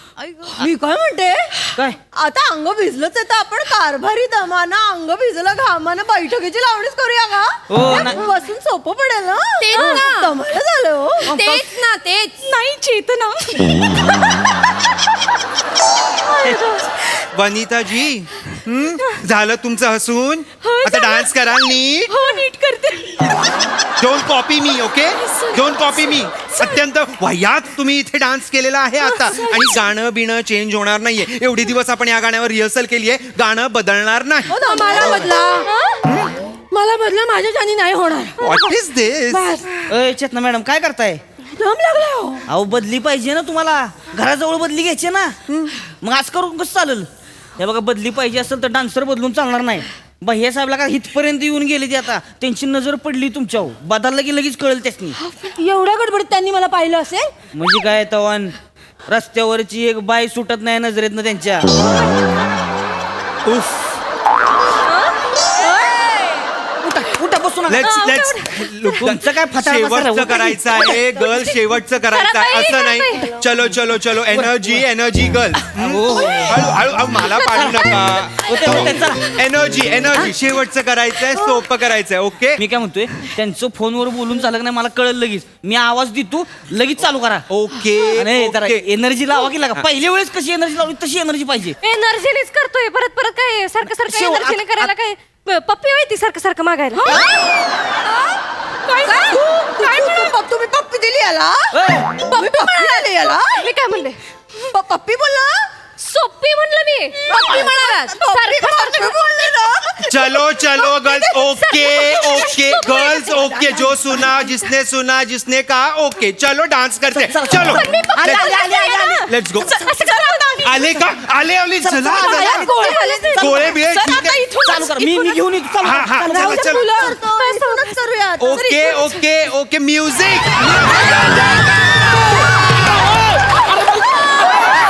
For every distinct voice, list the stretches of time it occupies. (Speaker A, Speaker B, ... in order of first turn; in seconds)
Speaker A: 0.2-1.6, 2.1-11.4, 34.5-35.7, 36.7-38.7, 41.6-42.4, 97.1-97.4, 99.0-103.7, 104.7-105.7, 107.2-111.5, 113.5-114.3, 122.5-123.7, 126.8-128.9
Speaker B: 7.7-8.2, 11.2-11.7, 39.9-41.2, 42.5-45.4, 46.0-47.1, 47.6-55.2, 57.5-58.5, 59.1-61.7, 66.8-68.0, 69.0-71.2, 74.3-74.9, 75.8-76.5, 77.5-79.4, 82.6-87.5, 88.2-91.8, 93.8-94.9, 101.7-102.2, 117.1-119.2, 121.8-123.0, 124.6-126.8
Speaker C: 9.6-10.4, 11.2-14.0, 20.6-23.4, 25.2-26.8, 56.5-57.0
Speaker D: 17.3-22.1, 24.0-35.3, 36.0-36.3, 38.4-39.5, 45.5-45.7, 63.4-63.9, 67.7-82.6, 87.5-88.9, 110.1-118.7, 119.2-119.9, 120.6-122.7, 123.3-124.4, 125.8-126.9, 128.4-130.7
Speaker E: 34.7-35.0, 35.6-36.0, 55.3-57.2, 65.7-66.4, 67.8-68.5, 72.1-73.3, 91.8-97.1, 98.1-98.3, 99.1-100.3, 102.3-104.2, 106.0-109.1, 111.5-113.8, 117.7-121.0, 122.1-125.4, 126.3-127.9